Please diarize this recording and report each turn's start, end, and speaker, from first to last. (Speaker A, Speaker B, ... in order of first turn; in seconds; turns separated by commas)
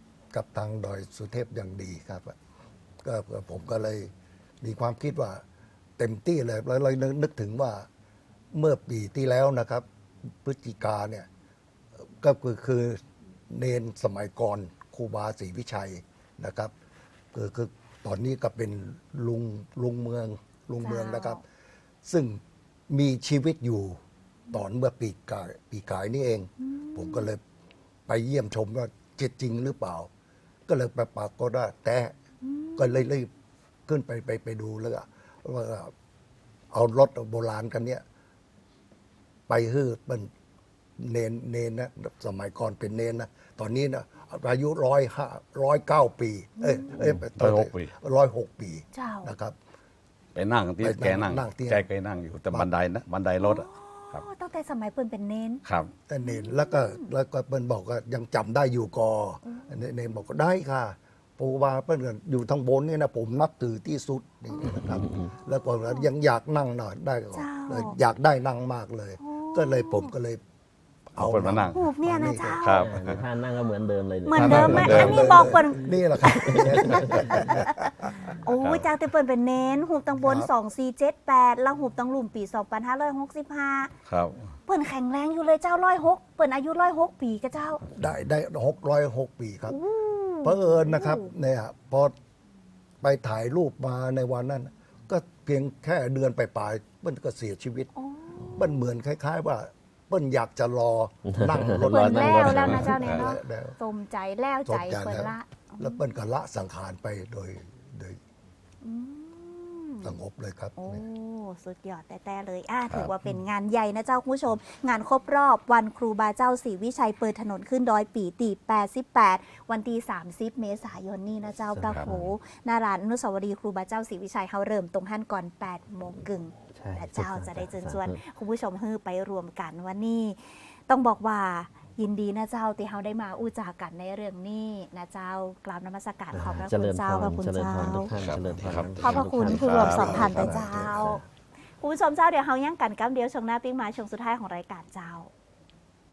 Speaker A: 0.3-2.4, Speaker A: 3.0-5.4, Speaker A: 6.0-7.9, Speaker A: 8.5-9.8, Speaker A: 10.4-11.3, Speaker A: 12.2-13.0, Speaker A: 13.5-16.7, Speaker A: 17.3-21.4, Speaker B: 20.8-21.4, Speaker A: 22.1-24.0, Speaker A: 24.5-27.4, Speaker B: 26.6-27.3, Speaker A: 28.1-30.1, Speaker A: 30.7-32.1, Speaker B: 32.4-33.0, Speaker A: 32.8-33.3, Speaker A: 33.9-35.9, Speaker A: 36.7-38.0, Speaker A: 39.5-40.3, Speaker A: 41.0-49.5, Speaker B: 46.6-47.0, Speaker C: 47.0-47.9, Speaker B: 48.9-49.3, Speaker C: 50.4-54.2, Speaker A: 50.8-51.9, Speaker B: 53.4-55.6, Speaker C: 55.6-55.9, Speaker A: 56.1-70.4, Speaker B: 56.2-57.1, Speaker B: 59.5-59.7, Speaker B: 64.5-64.8, Speaker D: 64.9-65.2, Speaker B: 67.3-68.0, Speaker B: 69.2-70.1, Speaker C: 71.2-71.8, Speaker A: 71.2-72.6, Speaker B: 71.7-72.9, Speaker C: 72.6-73.2, Speaker D: 72.7-75.4, Speaker B: 74.3-83.9, Speaker C: 74.3-75.4, Speaker A: 74.5-78.4, Speaker D: 76.4-77.3, Speaker C: 78.6-78.9, Speaker A: 80.2-80.5, Speaker C: 84.1-84.4, Speaker B: 84.7-87.8, Speaker A: 87.9-89.8, Speaker B: 89.7-91.3, Speaker A: 90.4-92.1, Speaker A: 93.0-97.9, Speaker B: 98.0-98.6, Speaker A: 98.5-103.8, Speaker D: 101.3-102.8, Speaker B: 101.8-106.0, Speaker C: 102.5-103.3, Speaker A: 104.7-108.2, Speaker B: 108.8-110.2, Speaker A: 110.0-111.0, Speaker B: 110.8-138.1, Speaker D: 121.7-122.3, Speaker D: 126.7-128.2, Speaker D: 136.3-141.2, Speaker C: 138.1-140.4, Speaker A: 138.4-141.2, Speaker B: 139.0-141.2, Speaker B: 141.8-145.3